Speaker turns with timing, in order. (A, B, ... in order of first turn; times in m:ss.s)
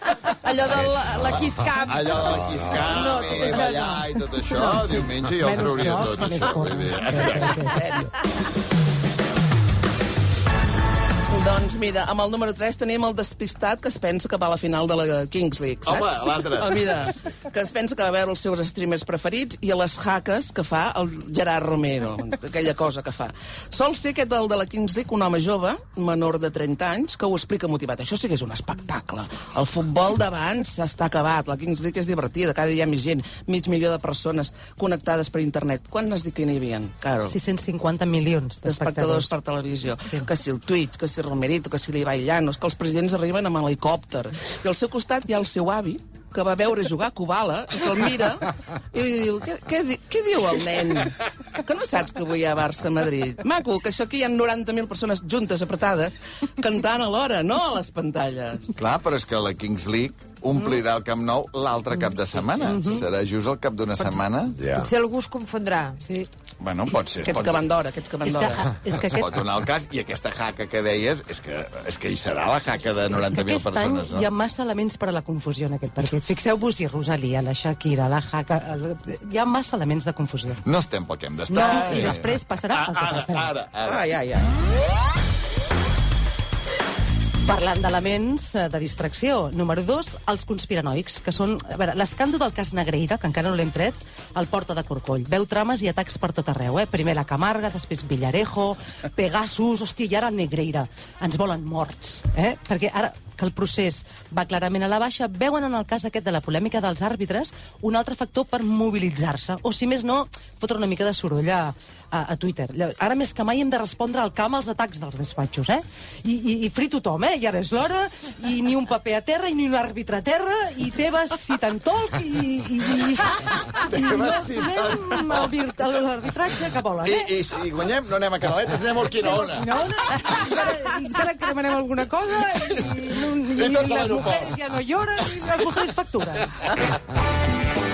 0:00.4-0:05.3 A
0:00.6-0:03.4 B
0:00.8-0:07.6 C
0:05.4-0:08.0 D
0:05.9-0:07.8 A
0:07.7-0:08.1 E
0:11.3-0:37.4 E
0:15.8-0:16.6 C
0:37.2-0:39.3 D
0:38.6-0:58.7 E
0:40.0-0:40.3 D
0:58.8-1:04.6 C
1:02.6-1:03.1 D
1:04.5-1:04.9 B
1:04.7-1:06.0 A
1:06.0-1:06.3 D
1:06.6-1:07.7 C
1:07.3-1:08.6 E
1:08.2-1:09.3 D
1:09.2-1:14.3 C
1:13.1-1:20.6 D
1:20.6-1:24.0 C
1:21.5-1:23.5 D
1:23.9-1:24.5 E
1:27.4-2:07.3 D
2:03.8-2:05.5 C
2:07.0-2:09.7 C
2:09.2-2:16.6 D
2:13.5-2:14.6 C